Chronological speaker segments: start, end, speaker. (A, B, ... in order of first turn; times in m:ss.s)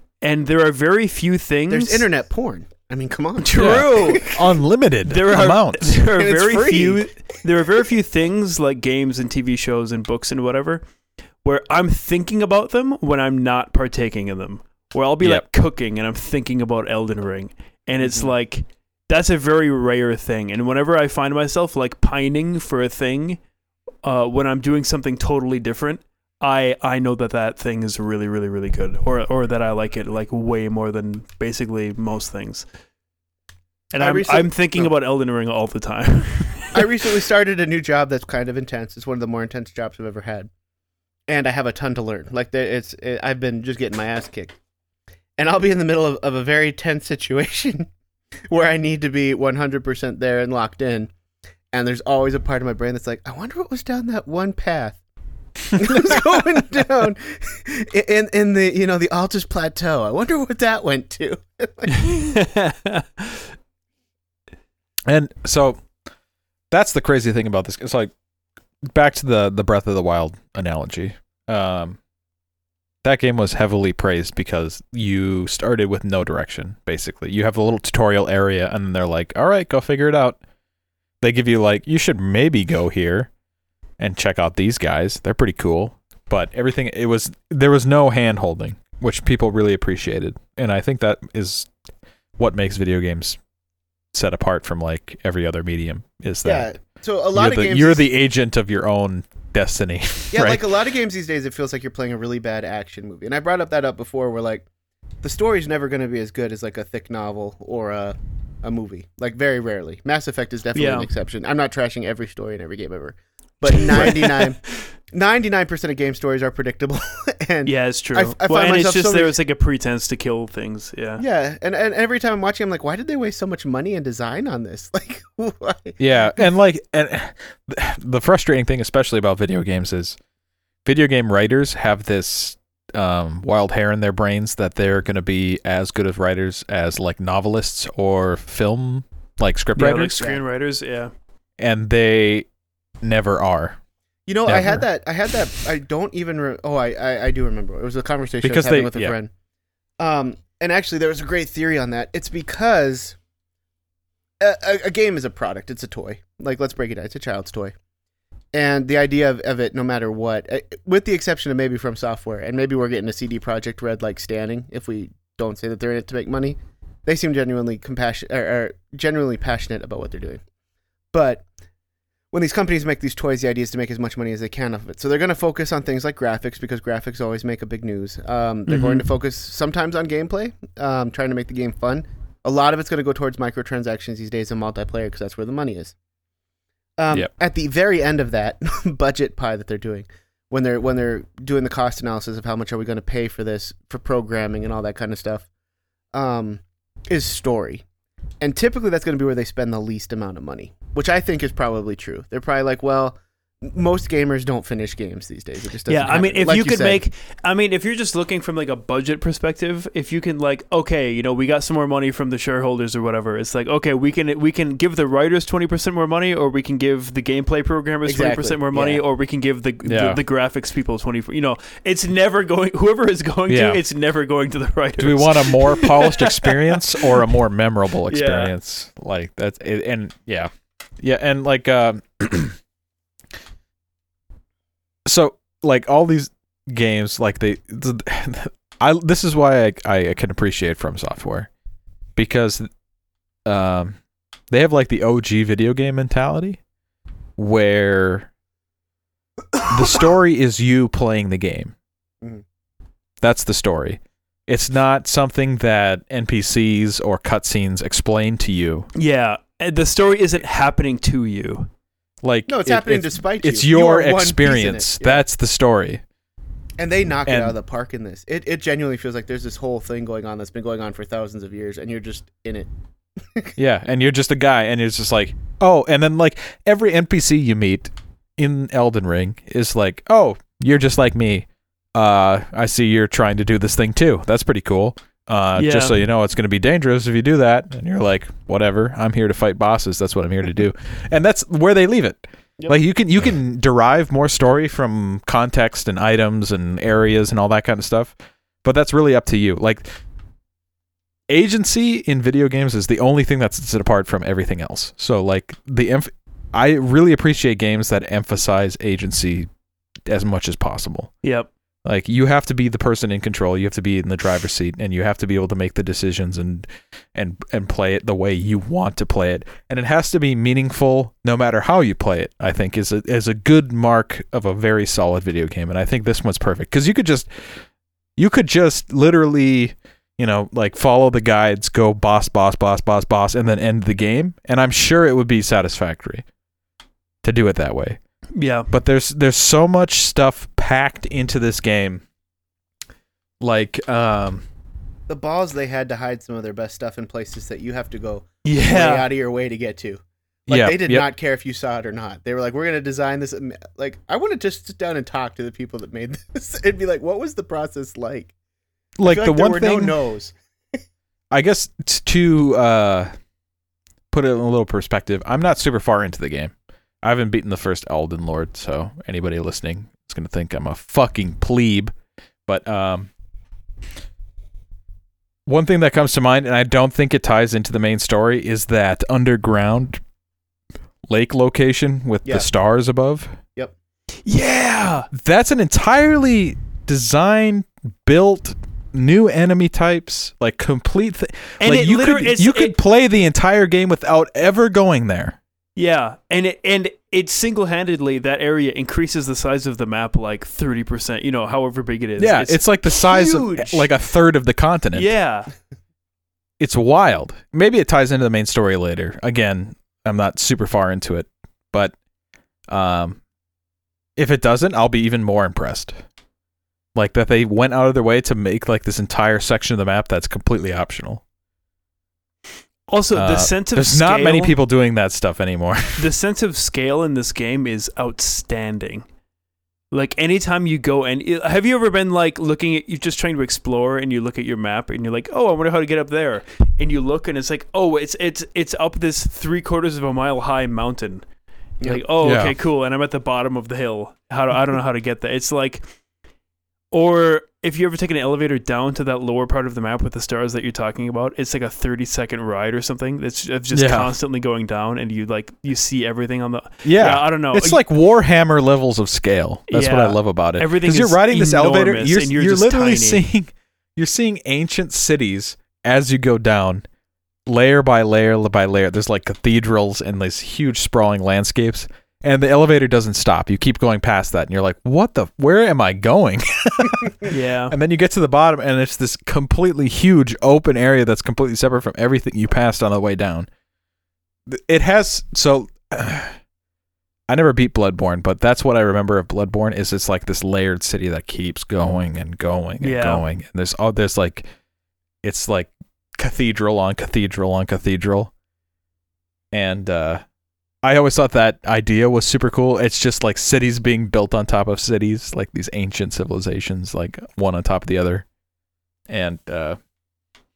0:00.2-0:02.1 A
0:01.7-0:04.4 B
0:03.5-0:04.4 A
0:03.6-0:06.0 C
0:05.0-0:10.8 A
0:06.2-0:07.1 B
0:11.4-0:23.4 A
0:24.0-0:32.7 A
0:33.9-0:36.9 A
0:34.0-0:34.9 B
0:36.7-0:40.5 B
0:41.3-0:44.6 B
0:45.4-0:47.9 B
0:48.5-0:51.1 B
0:51.7-0:55.0 B
0:55.7-1:02.2 B
1:02.0-1:03.4 A
1:05.1-1:05.9 C
1:06.7-1:08.1 C
1:08.8-1:12.0 C
1:13.0-1:20.4 C
1:21.2-1:23.3 C
1:24.0-1:31.7 C
1:32.4-1:33.4 C
1:34.1-1:36.8 C
1:36.4-1:38.0 B
1:37.4-1:40.7 C
1:40.3-1:44.7 B
1:45.2-1:59.4 B
1:50.8-1:51.1 A
1:53.8-1:54.4 A
1:57.7-2:01.2 A
2:01.2-2:06.0 B
2:06.0-2:10.2 C
2:10.8-2:20.4 C
2:19.8-2:21.1 A
2:21.6-2:22.5 C
2:23.0-2:23.8 C
2:24.3-2:29.3 B
2:24.5-2:24.8 C
2:28.4-2:29.1 C
2:30.0-2:33.2 B
2:34.4-2:37.7 B
2:38.5-2:50.4 B
2:51.1-2:51.4 B
2:52.3-3:06.0 B
2:58.7-2:59.1 A
3:07.0-3:15.5 B
3:16.1-3:17.8 B
3:18.4-3:27.0 B
3:25.9-3:47.0 A
3:38.1-3:39.0 B
3:39.8-3:40.2 C
3:43.5-3:43.8 C
3:45.0-3:50.5 C
3:48.1-3:48.5 A
3:51.0-3:52.6 C
3:55.1-4:01.5 C
4:02.2-4:02.7 C
4:03.4-4:04.0 C
4:04.5-4:06.6 C
4:07.4-4:08.3 C
4:09.6-4:11.8 C
4:13.2-4:18.9 C
4:19.0-4:21.7 A
4:22.2-4:26.0 C
4:22.5-4:25.2 B
4:26.8-4:33.5 B
4:27.3-4:27.6 C
4:33.6-5:00.0 C
4:45.6-4:46.0 A
5:01.3-5:09.5 C
5:10.1-5:11.1 C
5:11.2-5:11.5 A
5:11.8-5:27.6 C
5:28.2-5:36.2 C
5:37.2-5:38.0 C
5:38.4-5:38.7 A
5:38.7-5:42.0 C
5:43.4-5:44.5 C
5:45.1-5:58.3 B
5:48.4-5:49.1 A
5:50.5-5:51.1 C
5:59.0-6:00.0 C
5:59.0-6:00.4 B
6:01.3-6:03.1 C
6:04.1-6:11.9 C
6:12.5-6:13.1 C
6:15.5-6:20.0 C
6:21.1-6:23.4 C
6:24.2-6:25.1 A
6:25.1-6:35.4 C
6:31.6-6:32.7 A
6:35.8-6:43.9 A
6:42.2-6:45.1 C
6:44.9-6:45.5 A
6:46.6-6:51.9 C
6:52.7-6:53.2 C
6:54.2-6:56.0 C
6:57.0-7:01.2 C
7:02.9-7:04.6 A
7:03.1-7:06.1 C
7:06.0-7:09.0 A
7:09.9-7:21.3 A
7:21.8-7:25.8 A
7:22.2-7:22.6 C
7:26.9-7:37.8 A
7:33.7-7:34.1 C
7:36.8-7:46.8 C
7:39.7-7:43.2 A
7:47.5-8:03.5 C
7:57.2-7:57.8 A
8:04.5-8:06.4 C
8:07.3-8:14.5 C
8:12.8-8:13.2 A
8:15.2-8:18.3 C
8:19.5-8:20.2 C
8:20.8-8:28.3 C
8:29.1-8:29.8 C